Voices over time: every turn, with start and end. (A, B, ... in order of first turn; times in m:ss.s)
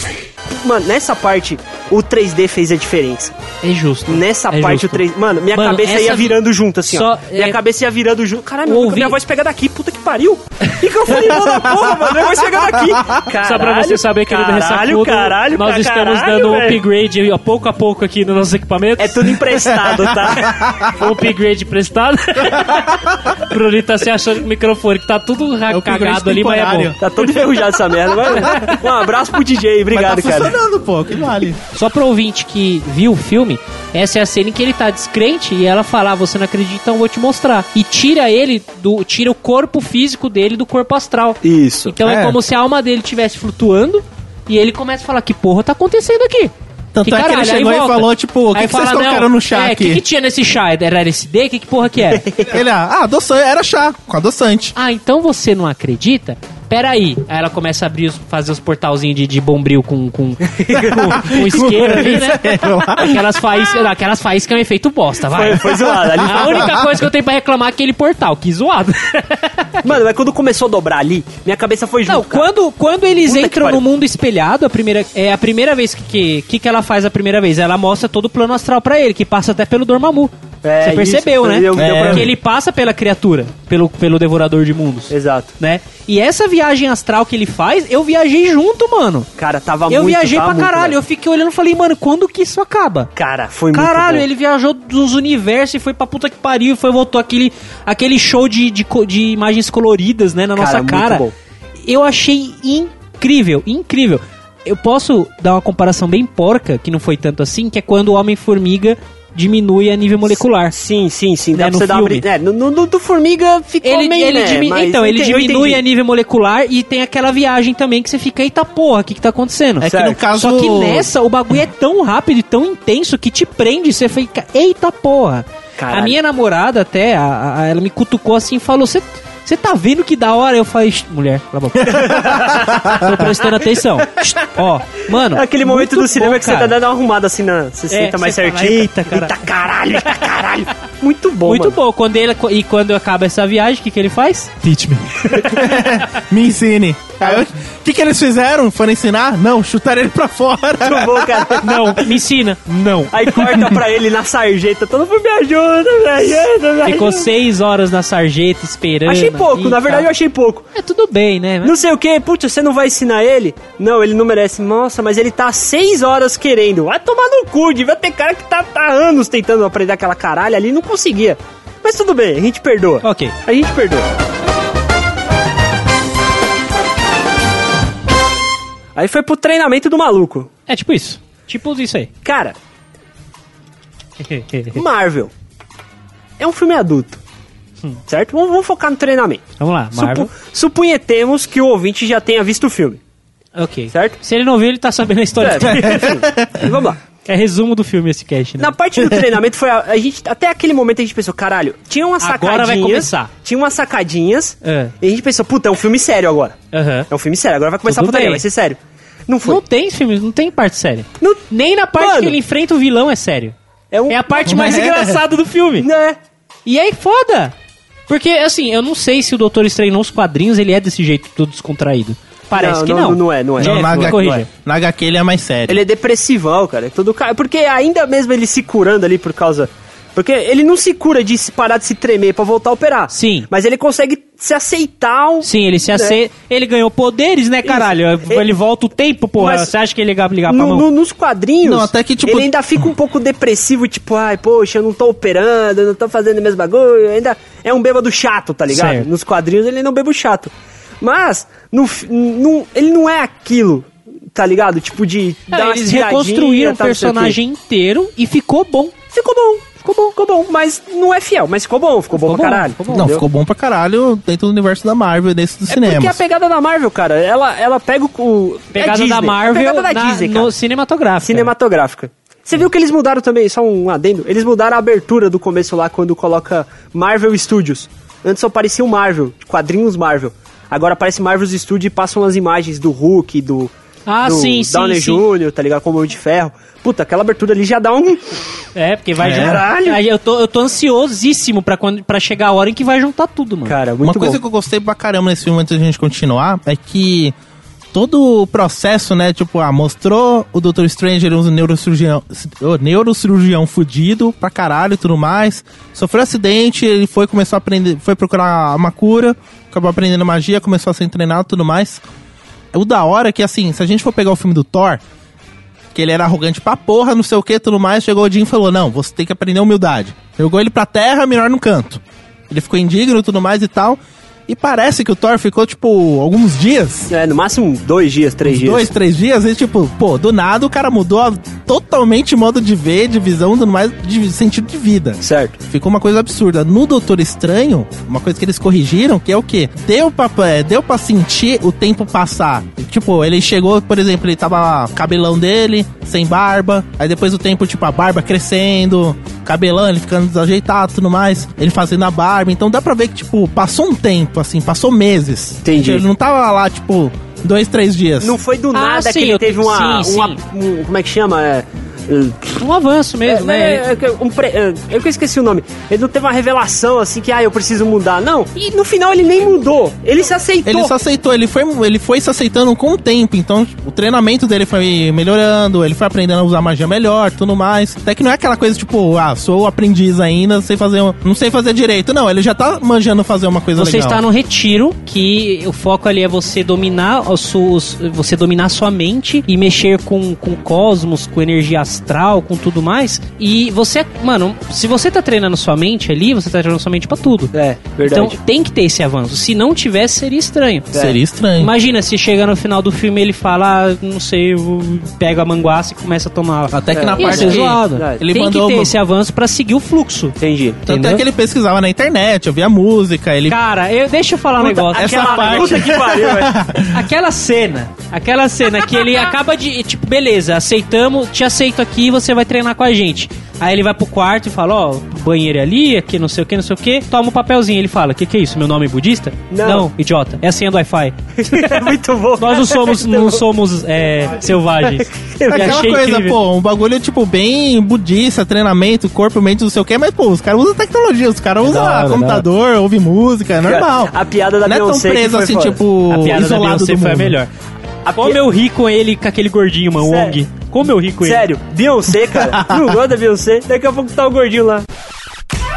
0:00.5-0:03.4 A
0:03.6-0:07.6 B
0:04.1-0:16.8 A
0:08.7-0:09.2 B
0:11.8-0:12.1 C
0:13.3-0:19.4 B
0:19.0-0:20.6 A
0:19.7-0:20.9 C
0:20.4-0:27.0 B
0:22.6-0:23.1 C
0:25.7-0:27.0 C
0:27.0-0:30.6 A
0:28.2-0:28.8 B
0:29.9-0:31.6 C
0:31.7-0:52.3 B
0:41.4-0:42.0 A
0:42.0-0:42.4 C
0:47.0-0:50.0 C
0:52.2-0:52.5 A
0:52.4-0:54.8 C
0:54.8-1:10.0 B
1:00.6-1:02.1 A
1:01.3-1:03.2 C
1:05.3-1:06.8 A
1:06.4-1:06.8 C
1:09.8-1:12.5 A
1:12.1-1:29.3 B
1:13.2-1:13.8 A
1:20.6-1:22.3 A
1:21.7-1:22.3 C
1:25.1-1:25.5 A
1:29.4-1:31.0 A
1:29.9-1:33.1 B
1:33.2-1:34.2 A
1:33.7-1:41.2 B
1:40.6-1:41.3 A
1:41.8-1:50.7 B
1:50.7-1:55.8 A
1:51.5-1:52.3 B
1:53.8-2:16.8 B
1:59.8-2:01.1 C
1:59.9-2:00.2 A
2:05.8-2:06.2 A
2:11.8-2:13.6 A
2:15.3-2:21.8 A
2:17.9-2:19.4 B
2:21.4-2:25.9 B
2:25.5-2:31.5 C
2:30.8-2:32.0 A
2:31.6-2:33.7 B
2:33.1-2:37.3 A
2:36.8-2:40.1 B
2:39.1-2:40.7 A
2:40.7-2:41.8 B
2:41.6-2:54.1 A
2:53.0-2:53.4 B
2:59.0-3:00.5 A
3:00.7-3:02.1 B
3:02.2-3:02.6 A
3:04.2-3:04.8 B
3:04.7-3:05.3 A
3:06.4-3:07.2 A
3:08.1-3:13.0 A
3:09.6-3:10.3 B
3:13.6-3:16.2 B
3:13.9-3:14.2 A
3:15.4-3:17.0 A
3:16.1-3:16.6 C
3:17.3-3:18.8 B
3:18.6-3:26.6 A
3:22.2-3:23.3 B
3:24.6-3:24.9 B
3:26.7-3:27.1 B
3:27.1-3:29.6 A
3:27.8-3:28.4 B
3:29.4-3:33.6 B
3:31.2-3:31.4 A
3:32.0-3:32.4 A
3:33.9-3:35.0 A
3:34.1-3:35.9 B
3:34.5-3:35.2 C
3:35.8-3:36.2 A
3:36.7-3:37.5 B
3:38.1-3:44.5 B
3:42.6-3:44.5 A
3:43.6-3:45.8 C
3:45.7-3:56.2 A
3:53.1-3:53.5 B
3:55.4-4:00.9 B
3:57.6-3:58.5 A
3:59.4-3:59.7 A
4:00.5-4:17.4 A
4:01.6-4:02.9 C
4:08.7-4:09.1 B
4:15.5-4:19.0 B
4:19.1-4:23.2 A
4:22.1-4:23.1 B
4:22.9-4:26.2 C
4:25.7-4:30.5 A
4:28.7-4:31.5 B
4:31.2-4:43.7 A
4:44.1-4:45.2 B
4:44.2-4:48.4 A
4:48.8-4:53.8 B
4:49.2-4:50.0 A
4:49.2-4:49.6 C
4:53.7-4:54.4 A
4:54.0-4:57.4 C
4:57.9-5:12.0 C
5:12.7-5:15.0 C
5:15.9-5:27.1 C
5:27.1-5:28.9 A
5:28.4-5:58.4 C
5:35.2-5:35.6 A
5:55.6-5:56.0 A
5:58.2-6:02.6 A
5:58.7-6:00.4 B
6:02.6-6:03.8 B
6:03.3-6:10.9 A
6:10.6-6:24.2 C
6:23.8-6:40.9 B
6:37.5-6:38.4 A
6:40.9-6:41.2 A
6:40.9-6:41.7 C
6:41.6-6:51.2 B
6:46.7-6:49.0 C
6:46.9-6:48.2 A
6:50.4-6:50.8 A
6:50.9-6:53.6 C
6:53.5-6:55.8 B
6:54.6-6:56.6 A
6:54.8-6:57.0 C
6:56.9-7:16.4 B
7:09.5-7:09.9 A
7:11.4-7:13.4 A
7:14.8-7:15.9 A
7:15.5-7:24.1 C
7:21.6-7:22.5 B
7:23.7-7:25.8 A
7:24.6-7:27.4 C
7:26.1-7:27.5 B
7:28.0-7:28.4 A
7:28.2-7:31.4 B
7:30.0-7:30.4 A
7:31.2-7:34.9 A
7:32.4-7:32.9 C